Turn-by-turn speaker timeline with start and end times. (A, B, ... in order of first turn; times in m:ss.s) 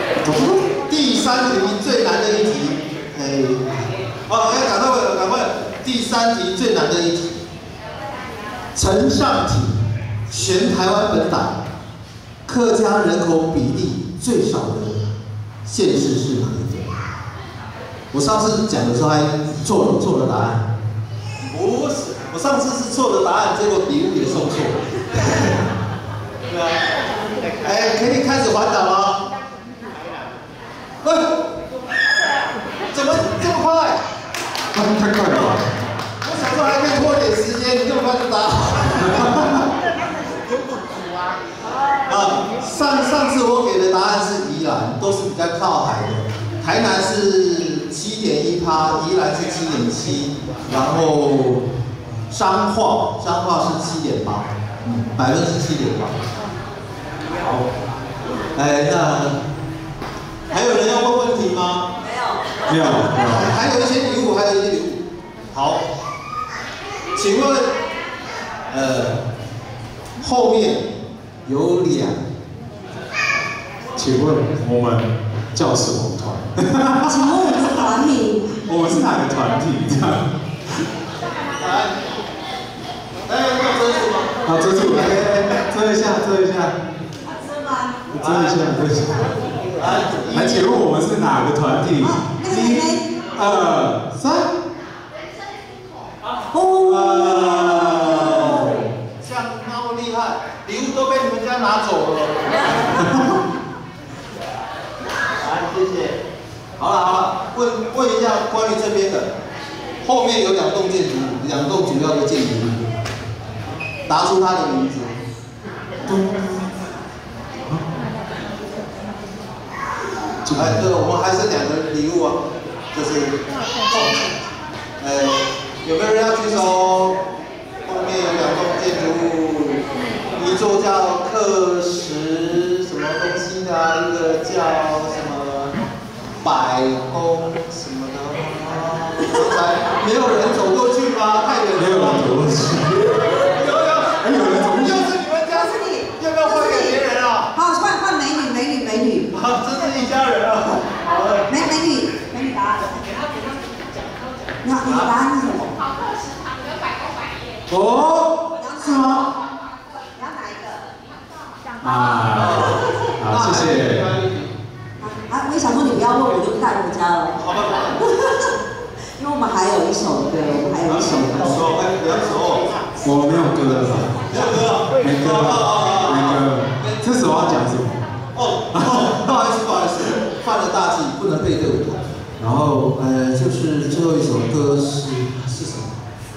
0:00.3-0:00.5 A
0:00.8-0:07.4 B
0:08.7-0:11.6 B
0:12.4-0:15.0 B
0:15.6-0:16.9 B
0:18.1-0:20.7 B
0:21.4-0:25.6 B
0:26.5-0:26.8 B
0:27.6-0:29.2 B
0:31.0-0:31.4 B
0:32.9-0:34.0 B
0:34.7-0:35.6 A
0:36.2-0:39.7 B
0:42.1-0:51.7 B
0:52.3-0:56.2 B
0:58.5-0:59.4 B
1:00.5-1:01.9 B
1:02.0-1:02.6 C
1:02.7-1:03.5 A
1:02.8-1:05.0 B
1:05.5-1:05.9 B
1:07.1-1:07.7 B
1:08.7-1:09.2 B
1:10.2-1:12.2 B
1:14.0-1:17.2 A
1:17.0-1:18.5 C
1:18.6-1:20.3 A
1:21.6-1:21.9 B
1:23.2-1:25.6 B
1:24.4-1:26.8 A
1:27.2-1:28.0 C
1:28.1-1:34.5 A
1:28.2-1:28.7 B
1:29.8-1:30.7 B
1:32.0-1:33.0 C
1:36.5-1:38.8 C
1:36.8-1:43.1 B
1:45.4-1:46.2 B
1:46.8-1:49.3 B
1:50.0-1:52.8 B
1:54.1-1:55.2 B
1:56.0-1:56.5 A
2:00.4-2:00.9 A
2:00.5-2:02.4 B
2:02.9-2:04.2 B
2:05.0-2:07.2 B
2:07.8-2:09.8 B
2:10.4-2:15.7 B
2:16.4-2:22.4 B
2:21.8-2:23.1 A
2:23.4-2:27.5 B
2:24.2-2:25.1 A
2:25.5-2:27.0 C
2:27.5-2:29.3 C
2:29.3-2:31.5 B
2:31.5-2:33.0 C
2:34.6-2:35.8 C
2:34.8-2:35.1 B
2:37.7-2:38.3 A
2:38.6-2:39.2 C
2:40.1-2:40.9 C
2:41.8-2:44.1 A
2:42.3-2:44.5 B
2:45.0-2:47.4 C
2:47.4-2:48.0 B
2:48.0-2:48.5 C
2:49.2-2:51.6 C
2:50.8-2:52.7 B
2:53.0-2:58.1 A
2:53.8-2:57.0 B
2:58.3-3:06.0 B
2:58.7-2:59.1 A